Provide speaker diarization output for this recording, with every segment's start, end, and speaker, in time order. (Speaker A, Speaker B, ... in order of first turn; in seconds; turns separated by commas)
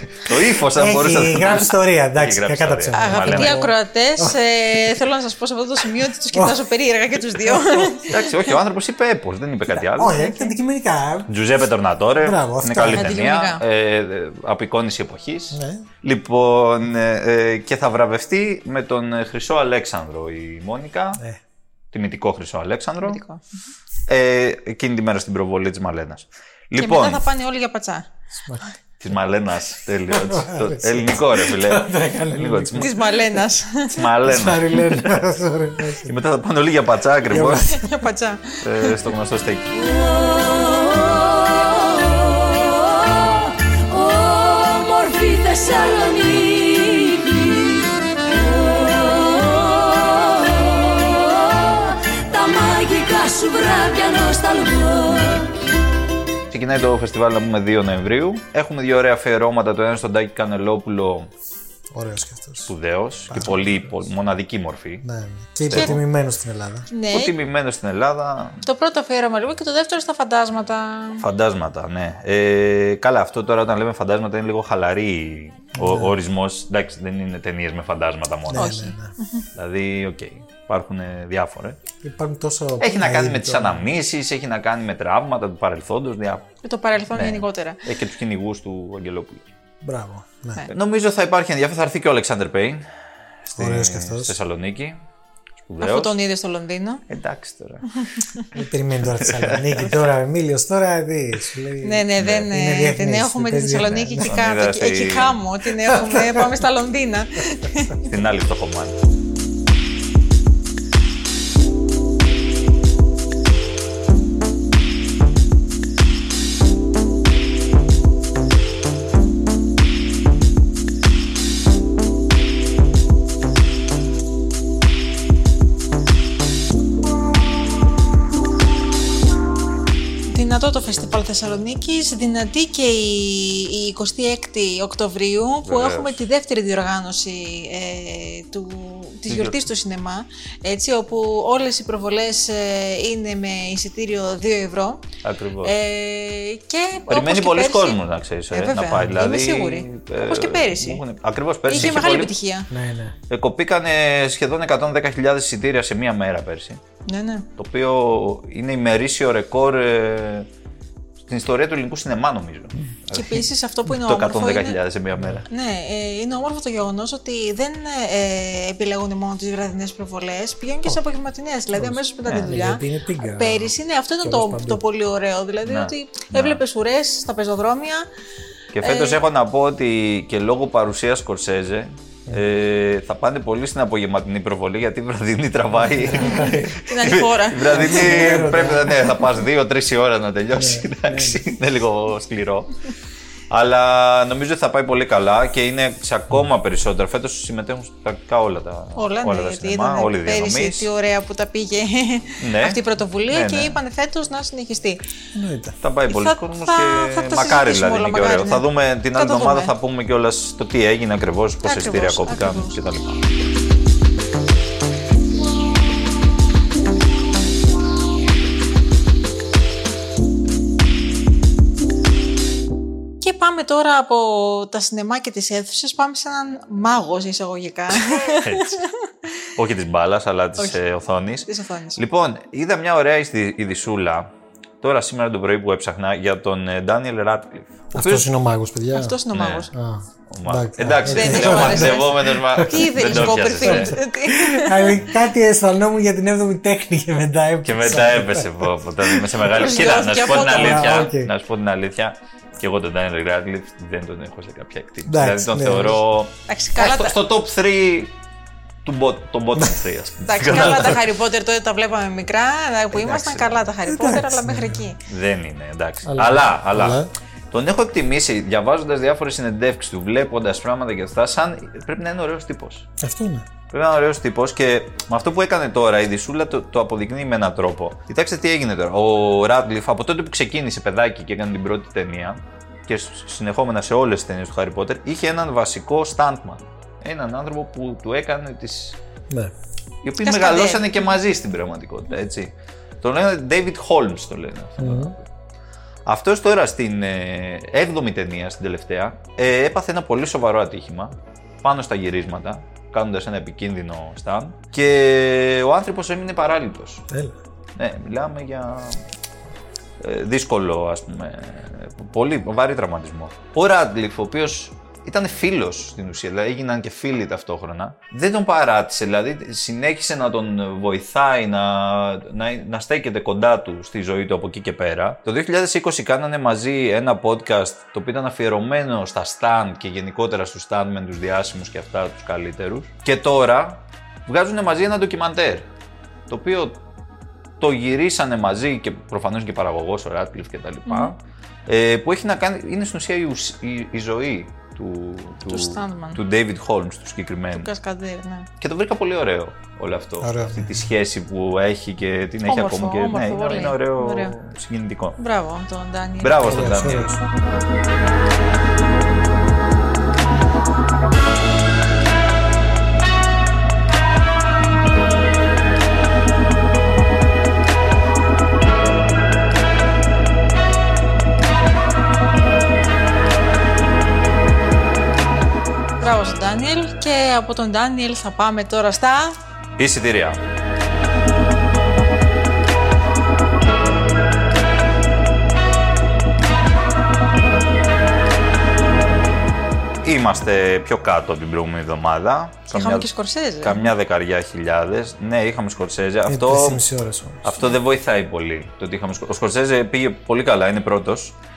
Speaker A: 0.2-3.6, Speaker B: 0.6-4.3, Speaker C: 2.9-8.2, Speaker B: 6.3-6.6, Speaker B: 7.4-7.9, Speaker A: 8.1-10.2, Speaker B: 9.7-11.3, Speaker C: 10.1-10.5, Speaker A: 11.3-21.2, Speaker B: 12.2-13.2, Speaker C: 12.9-13.6, Speaker B: 15.5-15.9, Speaker A: 21.9-23.2, Speaker C: 23.0-23.4, Speaker A: 24.1-27.2, Speaker C: 26.8-28.1, Speaker B: 28.3-28.6, Speaker A: 29.0-33.0, Speaker B: 30.1-33.0, Speaker C: 32.8-33.9, Speaker A: 33.9-35.1, Speaker B: 34.2-36.2, Speaker A: 36.0-37.7, Speaker B: 37.3-38.0, Speaker C: 37.7-38.6, Speaker A: 38.6-39.7, Speaker D: 39.8-55.6, Speaker A: 56.5-61.3, Speaker B: 61.9-62.7, Speaker A: 62.7-65.0, Speaker B: 63.3-64.1, Speaker B: 65.0-66.9, Speaker A: 65.6-66.0, Speaker C: 66.9-67.3, Speaker A: 67.1-68.6, Speaker C: 68.6-71.2, Speaker A: 71.2-78.8, Speaker B: 75.7-76.2, Speaker B: 78.5-79.1, Speaker C: 78.5-79.5, Speaker A: 79.5-81.8, Speaker B: 82.0-83.9, Speaker A: 82.8-86.4, Speaker C: 86.6-87.8, Speaker A: 87.1-89.5, Speaker B: 89.8-90.6, Speaker A: 90.7-92.8, Speaker A: 93.5-95.0, Speaker B: 93.6-94.4, Speaker A: 95.7-96.1, Speaker C: 95.8-97.0, Speaker A: 97.1-97.9, Speaker B: 98.5-104.3, Speaker A: 99.2-99.9, Speaker C: 101.8-108.0, Speaker A: 102.2-102.5, Speaker A: 104.2-105.4, Speaker A: 108.0-109.0, Speaker C: 130.3-145.0, Speaker A: 135.6-136.2, Speaker A: 139.3-139.7, Speaker A: 145.2-145.8, Speaker C: 145.6-151.0, Speaker A: 147.1-152.3, Speaker C: 151.7-152.7, Speaker B: 151.7-152.0, Speaker B: 152.7-153.2, Speaker A: 153.3-156.8, Speaker C: 157.1-157.5, Speaker A: 157.6-160.5, Speaker A: 161.2-165.5, Speaker C: 163.1-164.8, Speaker B: 165.2-165.4, Speaker C: 165.5-178.1, Speaker B: 171.7-174.8, Speaker A: 172.3-172.6, Speaker A: 175.7-176.6, Speaker A: 178.7-192.7, Speaker C: 178.8-179.2, Speaker B: 185.8-186.8, Speaker C: 186.9-188.4, Speaker B: 187.7-189.2, Speaker B: 190.5-191.4, Speaker A: 193.5-200.9, Speaker C: 199.0-205.0, Speaker A: 202.4-203.8, Speaker B: 205.3-205.8, Speaker A: 205.8-213.3, Speaker C: 206.1-209.7, Speaker C: 211.6-212.8, Speaker C: 223.2-228.8, Speaker A: 228.4-228.8, Speaker A: 229.6-238.3, Speaker C: 231.4-232.0, Speaker B: 237.9-239.2, Speaker C: 238.9-239.7, Speaker A: 239.3-239.7, Speaker B: 239.7-248.7, Speaker A: 240.3-244.0, Speaker C: 241.1-245.0, Speaker A: 247.6-258.1, Speaker C: 249.5-251.1, Speaker B: 250.3-251.3, Speaker B: 255.1-256.0, Speaker C: 256.5-257.2, Speaker A: 258.9-261.0, Speaker B: 259.6-259.8, Speaker C: 260.2-265.0, Speaker A: 262.9-263.6, Speaker B: 263.9-264.9, Speaker A: 265.1-267.0, Speaker B: 266.1-267.1, Speaker A: 267.5-272.9, Speaker B: 273.0-273.5, Speaker A: 273.7-289.0, Speaker A: 290.0-295.3, Speaker C: 290.2-290.9, Speaker B: 294.8-295.1, Speaker A: 296.1-307.0, Speaker B: 307.1-307.4, Speaker A: 307.8-309.0, Speaker A: 310.0-335.7, Speaker A: 336.3-336.8, Speaker A: 337.6-347.7, Speaker C: 340.9-341.1, Speaker C: 345.5-346.2, Speaker C: 347.5-348.5, Speaker A: 348.6-355.2, Speaker B: 350.2-350.9, Speaker C: 352.5-354.4, Speaker C: 355.2-356.6, Speaker A: 356.2-357.2, Speaker B: 356.4-357.2, Speaker C: 376.0-379.4, Speaker A: 379.8-380.4, Speaker A: 390.0-396.8, Speaker C: 392.7-393.9, Speaker B: 396.3-397.6, Speaker A: 397.4-401.4